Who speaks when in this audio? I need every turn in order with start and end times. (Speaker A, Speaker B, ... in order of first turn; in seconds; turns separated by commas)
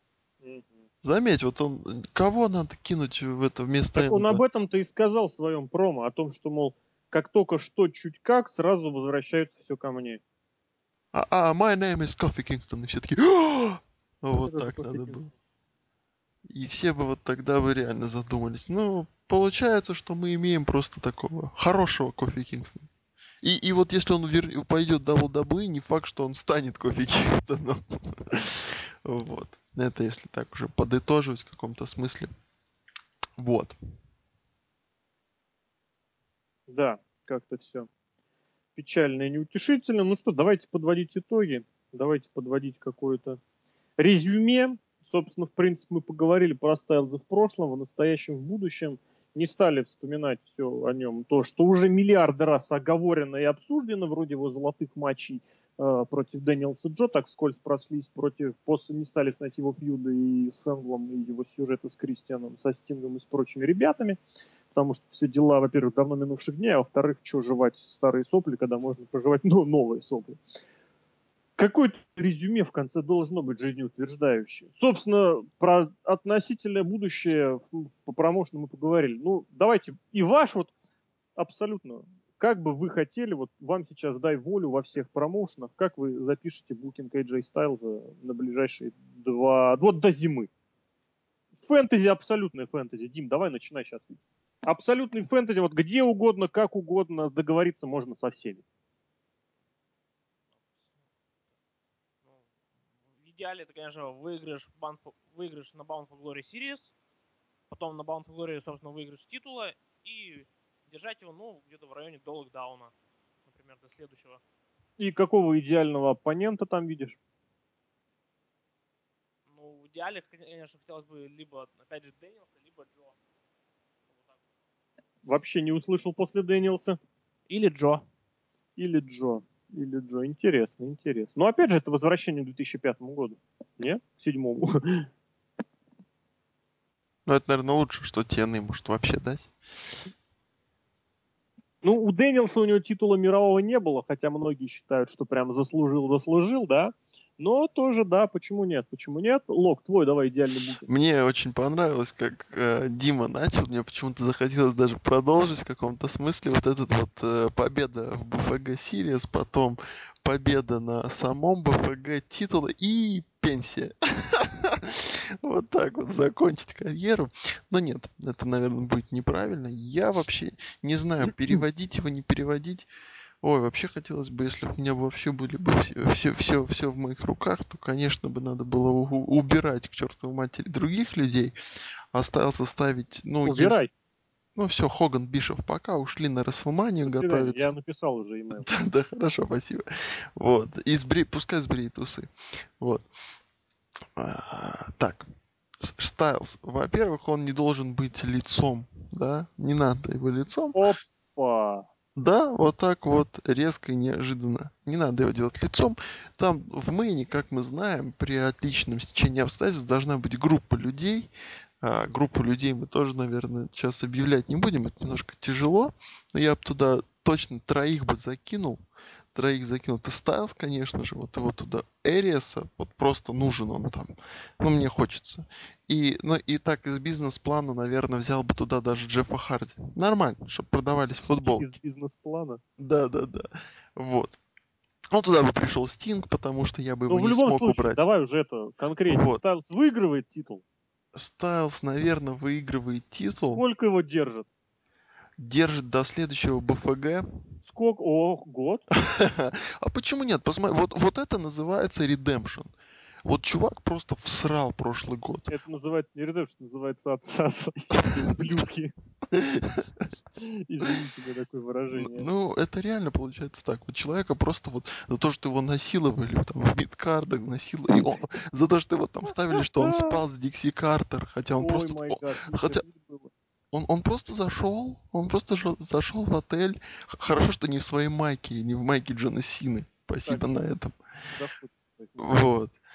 Speaker A: 0.4-0.8, Speaker B: 1.0-4.4, Speaker A: 3.9-10.2, Speaker B: 11.1-15.3, Speaker A: 14.4-15.3, Speaker B: 16.5-22.9, Speaker B: 23.4-32.3, Speaker B: 33.4-33.8, Speaker A: 36.7-37.9, Speaker A: 38.8-43.4, Speaker A: 44.0-64.2, Speaker A: 64.7-70.4, Speaker A: 71.6-80.7, Speaker A: 81.3-90.5, Speaker A: 91.5-98.6, Speaker C: 103.2-106.9, Speaker C: 107.7-112.9, Speaker C: 113.5-114.4, Speaker A: 115.0-117.2, Speaker C: 119.5-123.2, Speaker A: 125.2-127.0, Speaker C: 127.5-128.0, Speaker A: 128.8-135.1, Speaker B: 137.3-139.5, Speaker A: 141.8-150.9, Speaker B: 150.9-172.9, Speaker A: 171.2-171.6, Speaker B: 173.4-181.5, Speaker B: 182.1-183.8, Speaker A: 183.4-183.9, Speaker B: 184.6-187.7, Speaker A: 187.0-188.7, Speaker B: 188.5-189.8, Speaker B: 190.3-193.0, Speaker B: 194.2-195.3, Speaker B: 195.8-200.8, Speaker A: 200.7-201.8, Speaker B: 202.2-211.3, Speaker B: 211.8-218.8, Speaker B: 219.3-231.7, Speaker A: 231.0-232.6, Speaker B: 232.8-234.4, Speaker B: 235.1-238.1, Speaker A: 237.1-240.6, Speaker B: 239.1-239.4, Speaker B: 241.1-243.6, Speaker A: 243.4-244.5, Speaker B: 245.4-247.2, Speaker A: 247.6-248.8, Speaker B: 248.9-252.7, Speaker B: 253.2-255.5, Speaker A: 255.5-258.9, Speaker B: 258.0-258.6, Speaker B: 259.3-260.0, Speaker A: 260.4-262.3, Speaker B: 261.9-272.8, Speaker A: 269.5-270.2, Speaker A: 271.6-273.3, Speaker B: 273.7-281.0, Speaker A: 280.2-280.6, Speaker A: 281.3-282.4, Speaker B: 282.2-282.8